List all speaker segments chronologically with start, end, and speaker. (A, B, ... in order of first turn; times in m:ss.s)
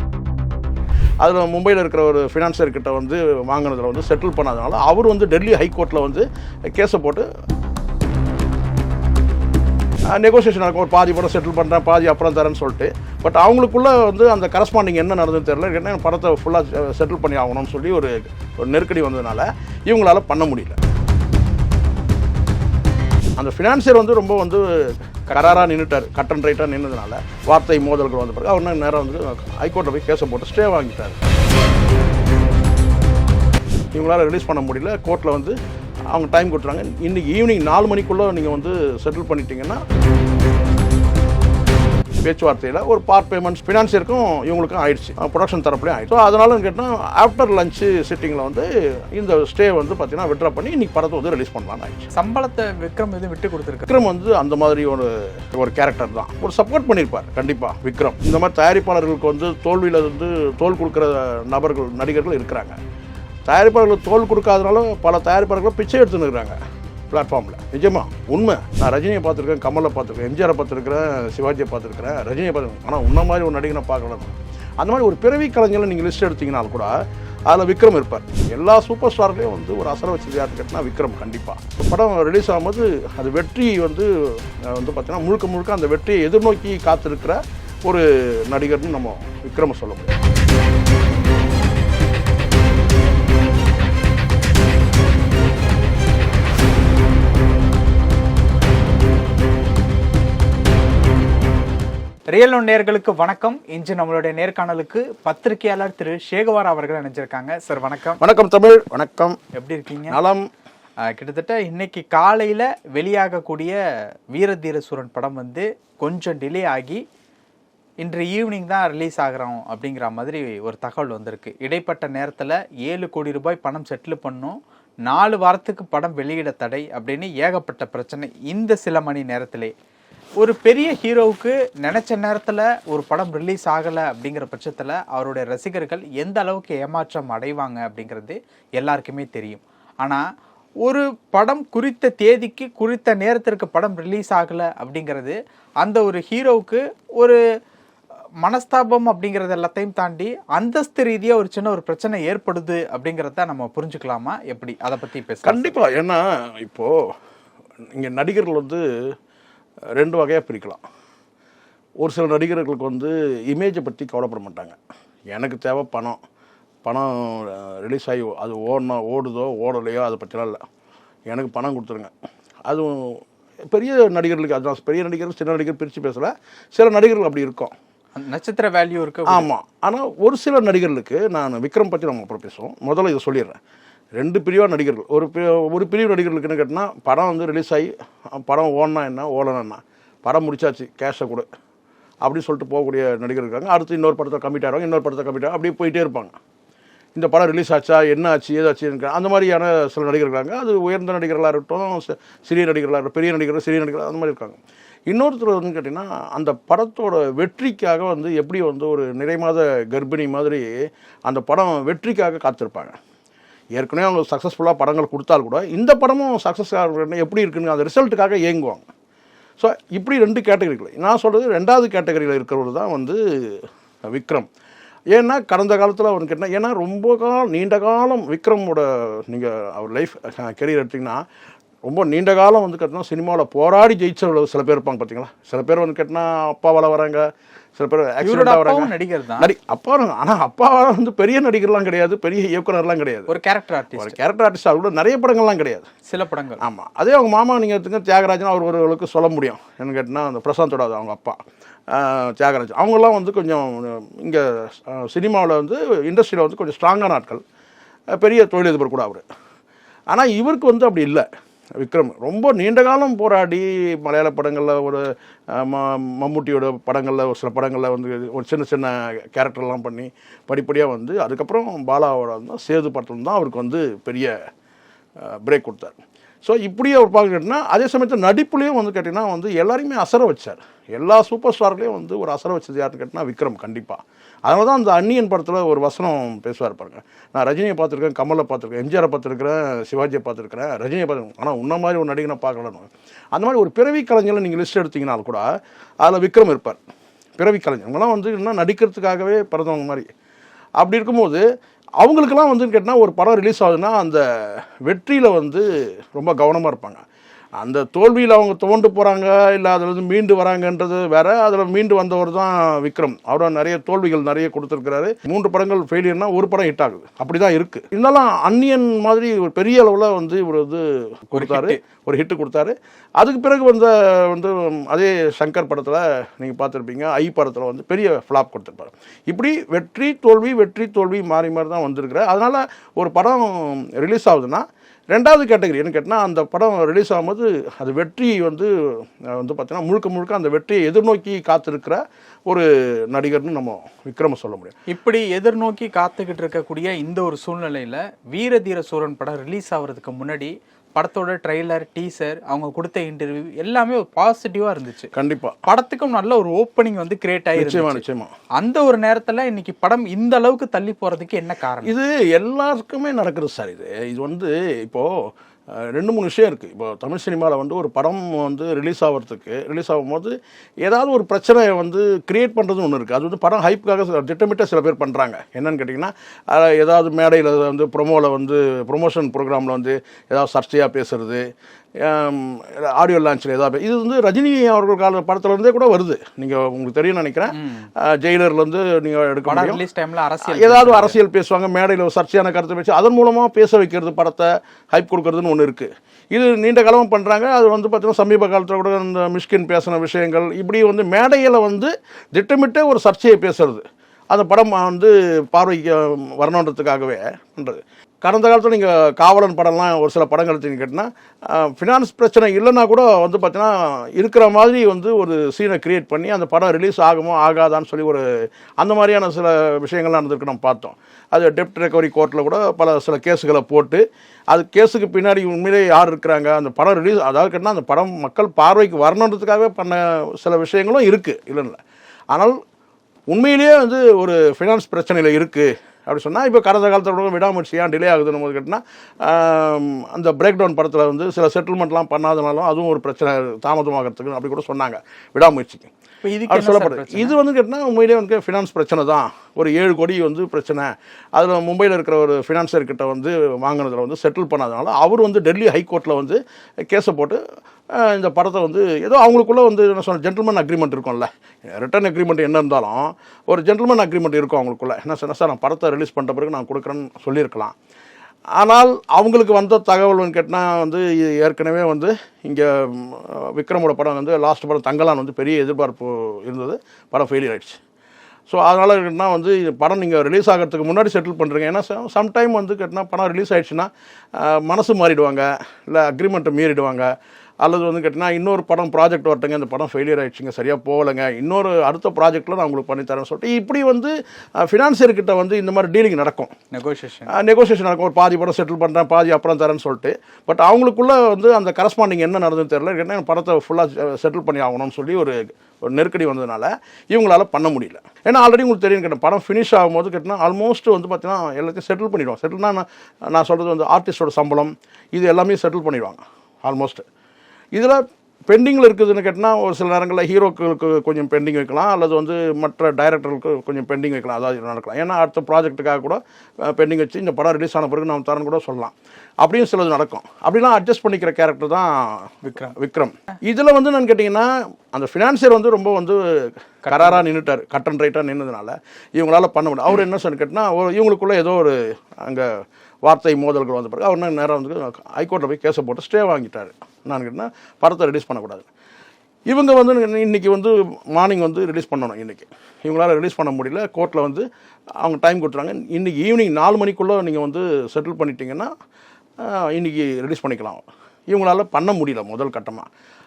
0:01.2-0:07.2 A
0:10.1-0:20.8 A
0:23.4-0:31.2 A
0:25.3-0:25.6 B
0:33.9-0:35.6 A
0:36.1-0:39.8 A
0:42.2-0:52.1 A
0:52.1-0:54.0 B
0:53.9-1:02.8 A
1:03.4-1:06.6 A
1:07.1-1:16.9 A
1:17.5-1:30.1 A
1:42.3-1:48.2 B
1:48.2-1:49.4 A
1:49.5-1:50.2 B
1:50.1-1:50.5 A
1:51.0-1:53.8 B
1:54.3-1:57.0 B
1:58.0-2:09.7 B
2:10.4-2:20.2 B
2:20.8-2:27.4 B
2:28.4-2:35.8 B
2:35.4-2:37.0 A
2:37.9-2:38.8 A
2:40.0-2:40.8 A
2:42.0-2:44.8 A
2:45.3-2:46.2 A
2:46.8-2:50.6 A
2:51.3-2:52.1 A
2:52.7-2:57.7 A
2:58.2-2:59.5 B
2:59.3-3:03.6 A
3:04.2-3:11.4 A
3:12.2-3:16.4 A
3:17.2-3:30.7 A
3:31.3-3:33.0 A
3:33.7-3:38.9 A
3:39.6-3:44.5 A
3:45.1-3:51.2 A
3:51.8-4:03.3 A
3:58.2-3:59.5 B
4:03.3-4:04.2 B
4:03.9-4:05.9 A
4:06.1-4:06.6 B
4:06.6-4:11.4 A
4:11.9-4:17.4 A
4:18.1-4:19.2 A
4:20.1-4:21.2 A
4:21.8-4:34.3 A
4:35.2-4:55.5 A
4:56.0-4:56.8 A
4:57.4-5:00.1 A
5:00.8-5:01.4 A
5:02.0-5:07.0 A
5:07.6-5:38.7 A
5:21.3-5:21.8 B
5:39.3-5:44.7 A
5:44.9-5:55.1 B
5:55.1-5:55.6 A
5:55.6-5:58.0 B
5:57.6-5:58.3 A
5:58.6-6:01.9 B
6:01.8-6:21.4 A
6:22.0-6:29.8 A
6:27.5-6:27.9 B
6:29.5-6:31.2 B
6:30.4-6:58.2 A
6:58.8-7:11.8 A
7:12.3-7:12.6 A
7:13.3-7:25.9 A
7:26.2-7:27.4 B
7:26.5-7:37.4 A
7:37.9-7:47.7 A
7:48.6-7:57.8 A
7:58.5-8:07.1 A
8:07.6-8:16.5 A
8:16.7-8:17.3 B
8:17.3-8:37.0 A
8:37.7-9:02.5 A
8:52.4-8:52.8 B
8:56.8-8:57.2 B
9:03.0-9:08.6 A
9:09.5-9:14.4 A
9:15.0-9:18.7 A
9:19.4-9:22.9 A